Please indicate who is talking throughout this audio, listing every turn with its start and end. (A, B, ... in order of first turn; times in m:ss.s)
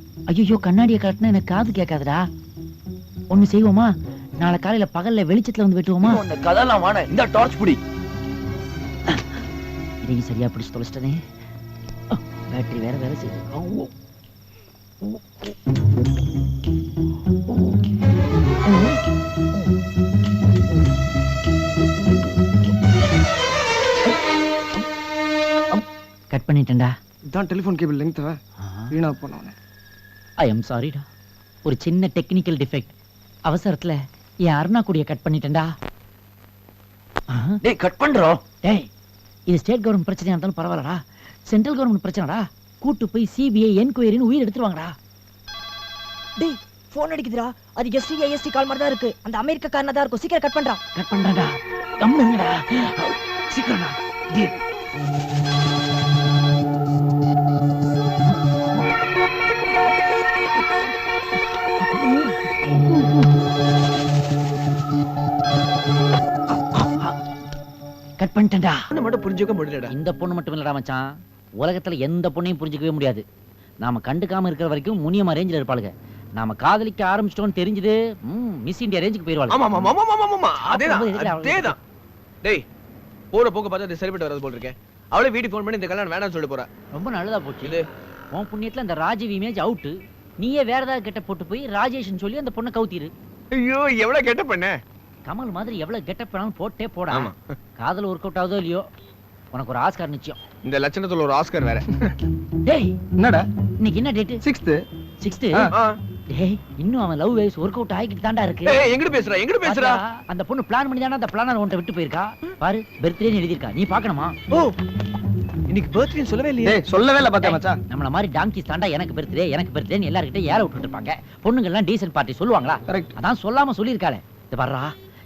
0:00.3-0:02.2 A
0:03.3-0:06.2 A
0:06.2-0:07.6 B
0:10.0-0:11.2 A
0:12.1-0:13.7 A
0:26.3-0:26.9 A
0:27.3-0:28.4 C
0:28.6-0:28.9 A
0:28.9-0:29.5 C
0:30.4-0:31.0 A
0:31.6-0:32.9 A
0:33.4-0:35.7 A
0:37.3-0:37.6 A
0:38.6-0:38.9 A
0:39.5-0:44.9 A
0:46.4-0:50.8 D
0:51.0-0:54.5 A
1:06.7-1:07.1 A
1:08.2-1:08.8 A
1:08.9-1:09.9 B
1:09.9-1:11.0 A
1:11.6-1:13.2 A
1:13.8-1:19.6 A
1:19.5-1:21.8 B
1:20.6-1:21.8 A
1:23.3-1:26.7 B
1:26.9-1:27.8 A
1:28.3-1:33.1 A
1:33.5-1:34.7 B
1:35.3-1:38.8 A
1:37.1-1:37.4 B
1:39.5-1:40.4 A
1:40.7-1:41.9 B
1:42.6-1:42.9 A
1:43.2-1:43.4 C
1:43.8-1:44.4 A
1:44.4-1:44.8 C
1:45.2-1:45.7 A
1:45.7-1:46.0 B
1:46.3-1:48.8 A
1:48.6-1:50.0 B
1:49.6-1:54.3 A
1:55.7-1:56.8 B
1:56.6-1:57.8 C
1:57.4-2:04.9 A
2:02.9-2:03.1 C